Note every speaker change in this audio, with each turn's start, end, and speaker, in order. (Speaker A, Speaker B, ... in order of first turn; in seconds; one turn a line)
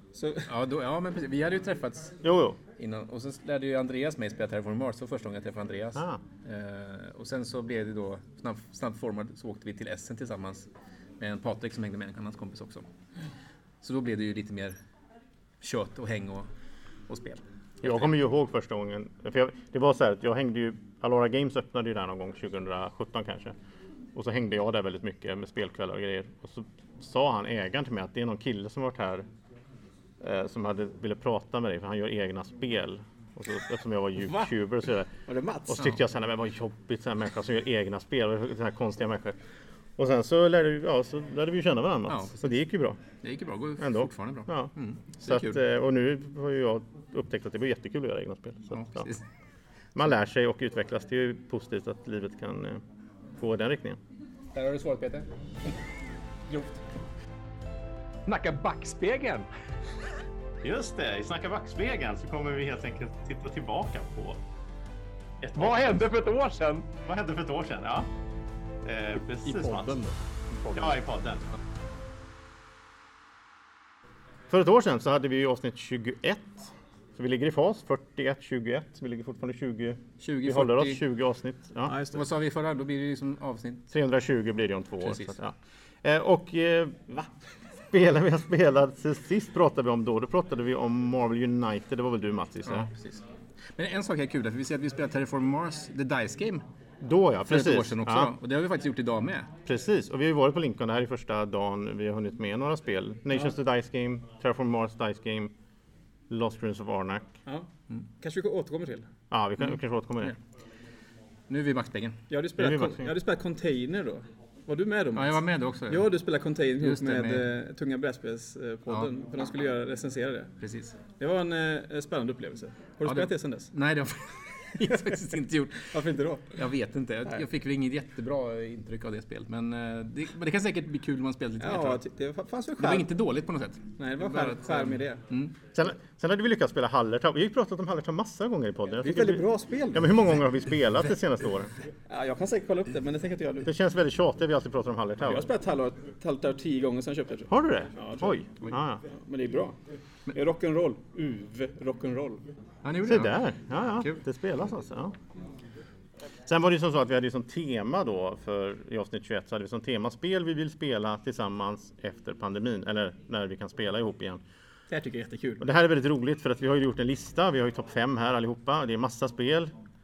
Speaker A: 0.1-0.5
Speaker B: 0.5-2.2
Speaker C: 2.2-2.6
Speaker B: 2.8-10.7
Speaker B: 11.2-12.8
Speaker B: 13.8-14.8
Speaker B: 15.6-16.5
Speaker B: 17.1-18.1
Speaker C: 17.8-23.6
Speaker C: 24.1-29.2
Speaker C: 30.2-35.1
Speaker A: 35.3-35.8
Speaker C: 35.7-39.4
Speaker C: 40.0-43.0
Speaker B: 42.1-42.5
Speaker B: 43.2-45.6
Speaker C: 43.8-49.1
Speaker B: 48.7-49.2
Speaker C: 49.9-52.8
Speaker C: 53.4-54.0
Speaker B: 54.5-55.7
Speaker B: 56.5-56.8
Speaker B: 58.3-59.5
Speaker C: 60.6-64.4
Speaker C: 65.4-66.3
Speaker B: 65.6-66.8
Speaker C: 66.9-68.1
Speaker C: 68.8-70.0
Speaker A: 69.7-70.1
Speaker C: 70.7-71.5
Speaker C: 74.5-81.9
Speaker B: 80.2-81.0
Speaker A: 81.9-82.2
Speaker B: 82.1-83.9
Speaker C: 83.9-87.1
Speaker B: 85.0-85.3
Speaker C: 87.9-92.9
Speaker B: 92.7-93.2
Speaker B: 93.8-96.6
Speaker C: 97.0-98.3
Speaker B: 97.5-99.5
Speaker C: 99.7-105.5
Speaker C: 106.3-107.3
Speaker A: 107.5-109.1
Speaker C: 109.3-110.3
Speaker B: 111.5-112.2
Speaker A: 112.3-120.5
Speaker C: 112.6-113.1
Speaker B: 115.1-116.1
Speaker B: 116.8-117.5
Speaker B: 120.6-121.0
Speaker A: 121.2-123.7
Speaker B: 123.1-125.9
Speaker A: 125.9-126.6
Speaker B: 126.5-132.0
Speaker A: 131.6-133.1
Speaker B: 132.8-135.5
Speaker A: 134.0-135.2
Speaker C: 135.7-141.7
Speaker A: 139.0-140.1
Speaker A: 142.1-143.7
Speaker C: 143.6-145.5
Speaker A: 145.2-148.5
Speaker C: 147.5-149.0
Speaker A: 149.1-149.8
Speaker A: 150.3-152.5
Speaker B: 152.8-153.4
Speaker C: 153.1-155.1
Speaker C: 156.5-164.4
Speaker A: 164.9-165.6
Speaker C: 165.6-169.7